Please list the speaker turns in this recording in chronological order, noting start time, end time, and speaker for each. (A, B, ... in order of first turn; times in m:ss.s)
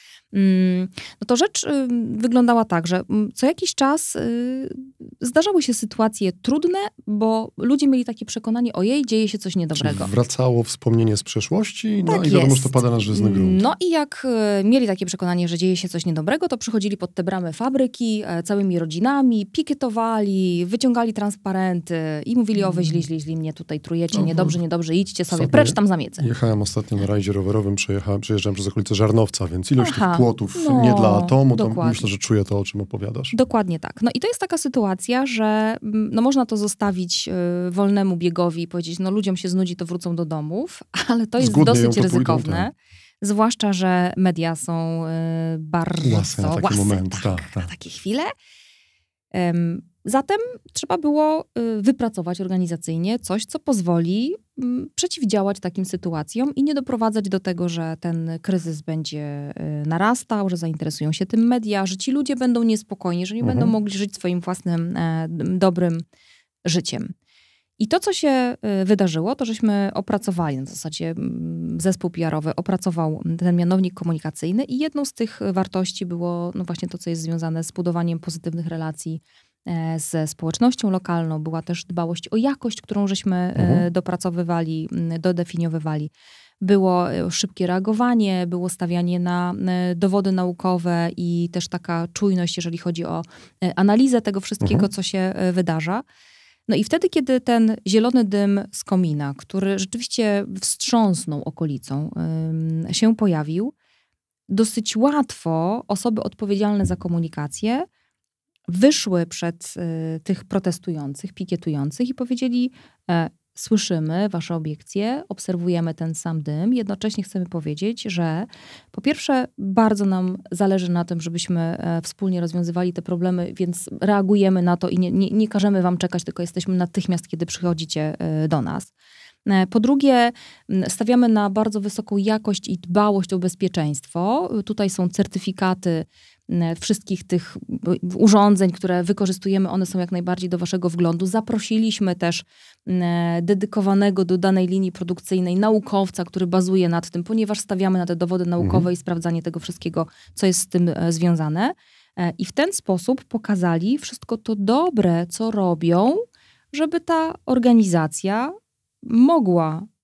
0:00.3-0:10.1 A
0:09.8-0:13.6 B
0:12.1-0:26.3 A
0:22.7-0:23.0 B
0:24.1-0:24.6 B
0:25.3-0:33.4 B
0:29.8-0:32.1 A
0:33.3-0:48.3 A
0:41.4-0:42.7 B
0:46.0-0:47.7 B
0:49.3-1:06.0 A
1:03.4-1:03.7 B
1:06.6-1:07.1 A
1:07.8-1:36.0 A
1:23.6-1:23.8 B
1:34.6-1:34.9 B
1:36.7-1:43.7 A
1:44.5-1:47.9 A
1:48.7-2:08.9 A
2:09.4-2:39.9 A
2:28.6-2:28.9 B